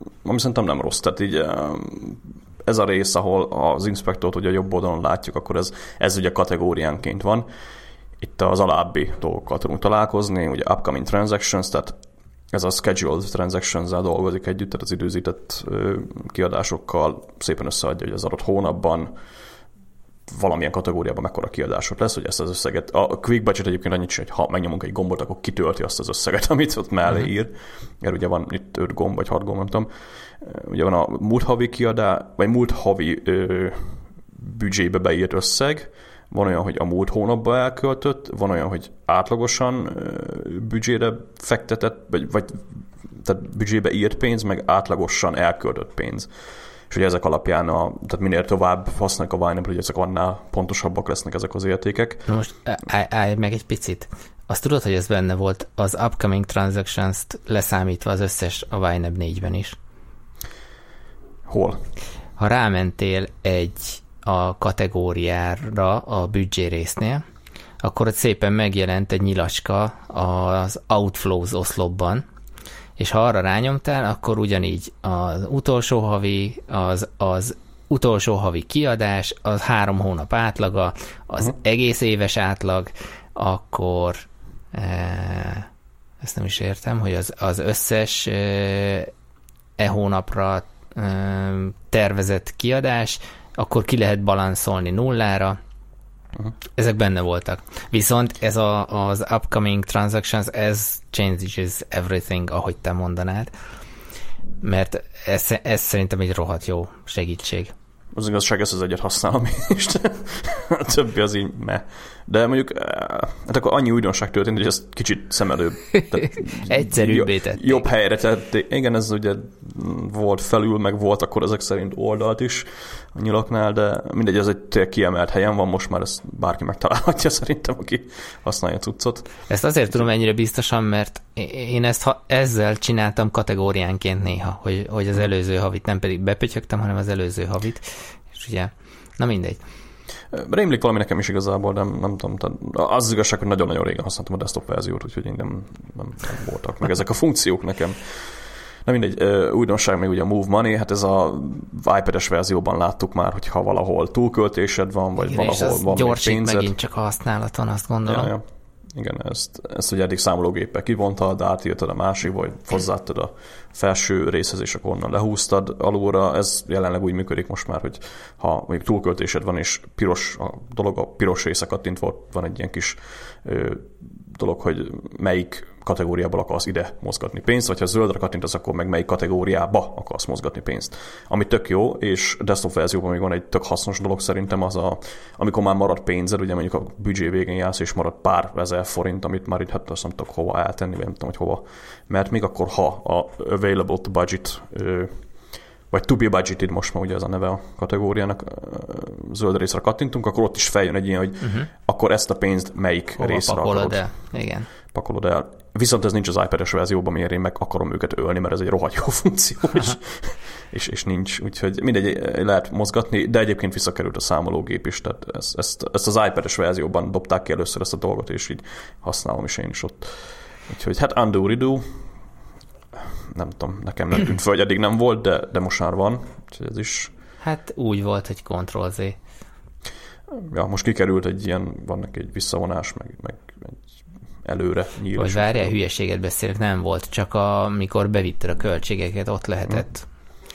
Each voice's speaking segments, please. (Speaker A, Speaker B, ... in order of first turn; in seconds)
Speaker A: 0.2-7.5, 8.2-12.0, 12.5-19.1, 20.3-29.9, 30.4-46.3, 46.9-52.2, 61.5-61.8, 108.1-129.3, 140.3-156.7, 158.1-195.2, 195.9-204.1, 204.9-222.0, 223.0-227.1, 230.3-233.8, 234.4-235.7
Speaker B: 52.3-59.8, 62.4-67.2, 67.8-72.2, 73.0-85.7, 86.2-89.1, 89.8-95.6, 96.8-103.5, 104.6-107.7, 116.0-117.8, 129.5-139.6, 155.2-158.3, 201.4-201.7, 203.2-204.7, 227.4-229.2, 235.2-240.1